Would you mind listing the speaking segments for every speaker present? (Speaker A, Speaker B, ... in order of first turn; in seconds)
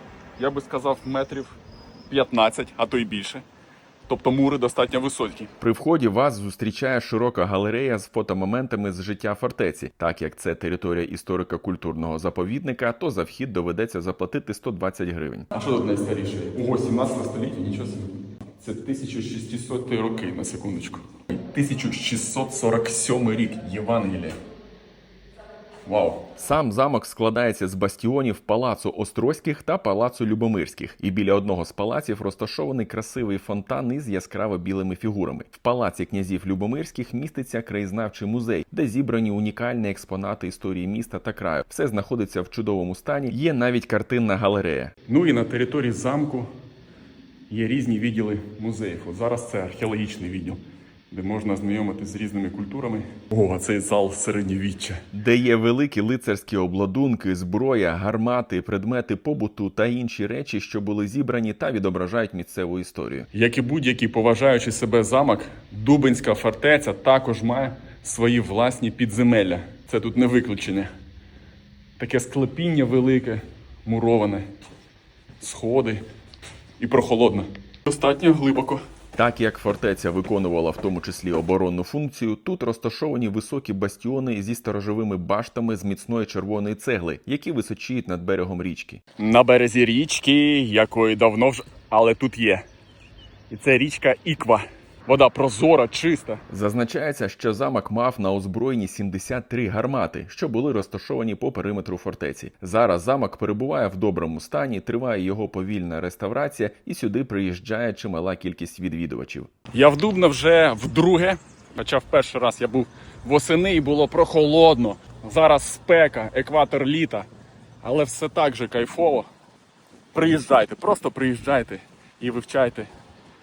Speaker A: 0.4-1.6, 2.1-3.4, 4.1-5.5, 15.5-24.4, 25.9-26.2, 45.1-46.5, 47.5-55.0, 63.3-70.9, 72.0-74.5, 75.4-76.0, 76.8-78.8, 89.2-92.7, 93.5-96.4, 109.7-117.3, 117.8-119.3, 120.1-122.9
Speaker B: 5.6-15.5, 26.4-45.0, 55.1-63.3, 79.2-89.0, 96.5-109.5